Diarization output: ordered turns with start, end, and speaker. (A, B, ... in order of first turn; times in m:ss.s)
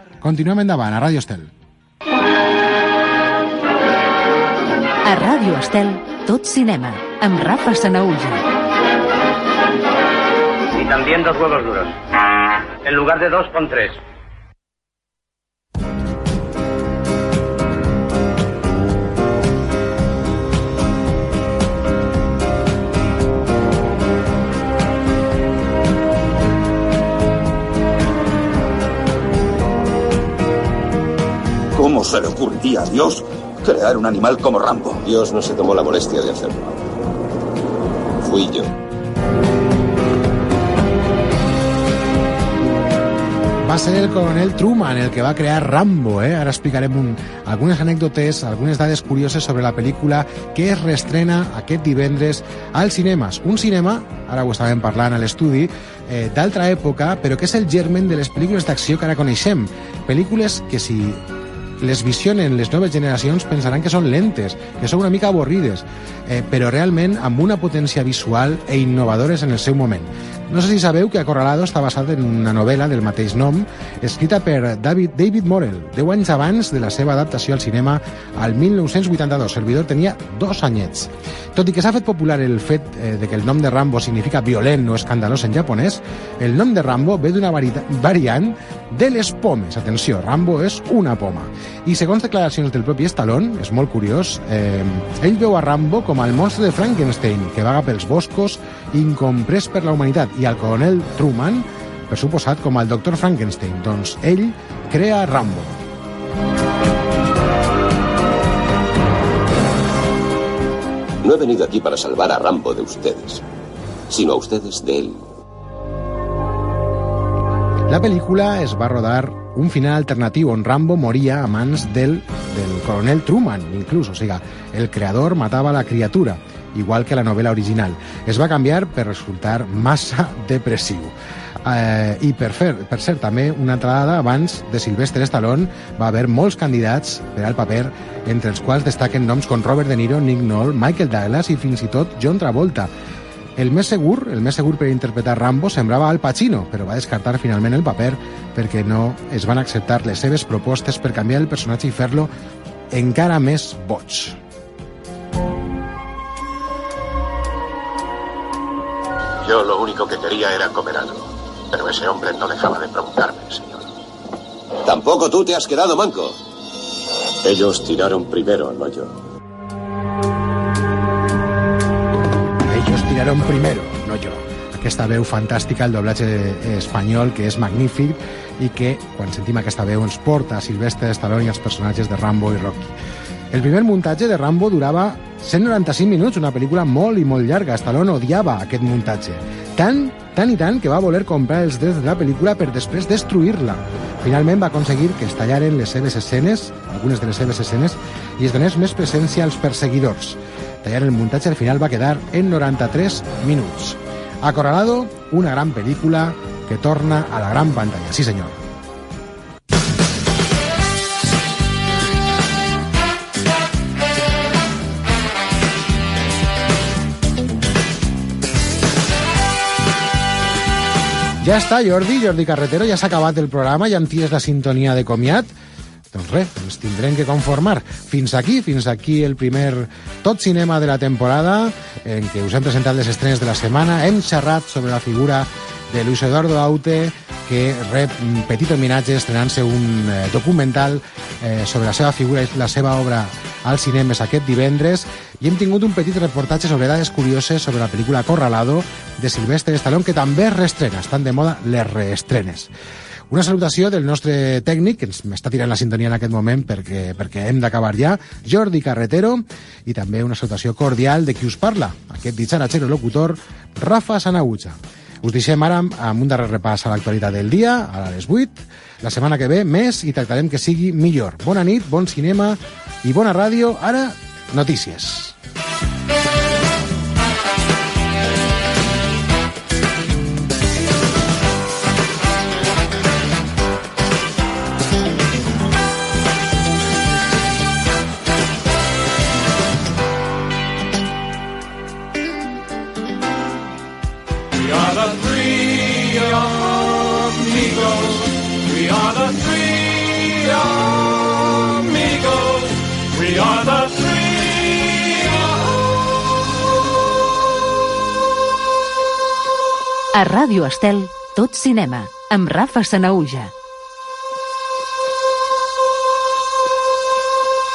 0:00.2-0:01.5 A
0:05.0-0:08.4 B
0:10.7-0:11.9 C
0:12.8-0:14.0 C
0:31.7-0:35.0 D
0:35.0-0:36.8 E
0:38.2-0:38.7 E
0:43.6-1:01.2 A
1:01.8-1:45.8 A
1:51.2-1:53.4 E
1:54.1-1:55.2 E
1:57.9-2:22.9 A
2:23.6-2:32.3 A
2:32.9-2:34.4 A
2:39.4-2:43.9 E
2:44.8-2:46.4 E
2:47.4-2:49.1 E
2:52.7-3:02.9 A
3:03.5-3:28.6 A
3:41.4-3:45.5 A
3:46.1-4:12.7 A
4:13.3-4:35.4 A
4:54.5-5:05.5 F
5:10.1-5:13.5 B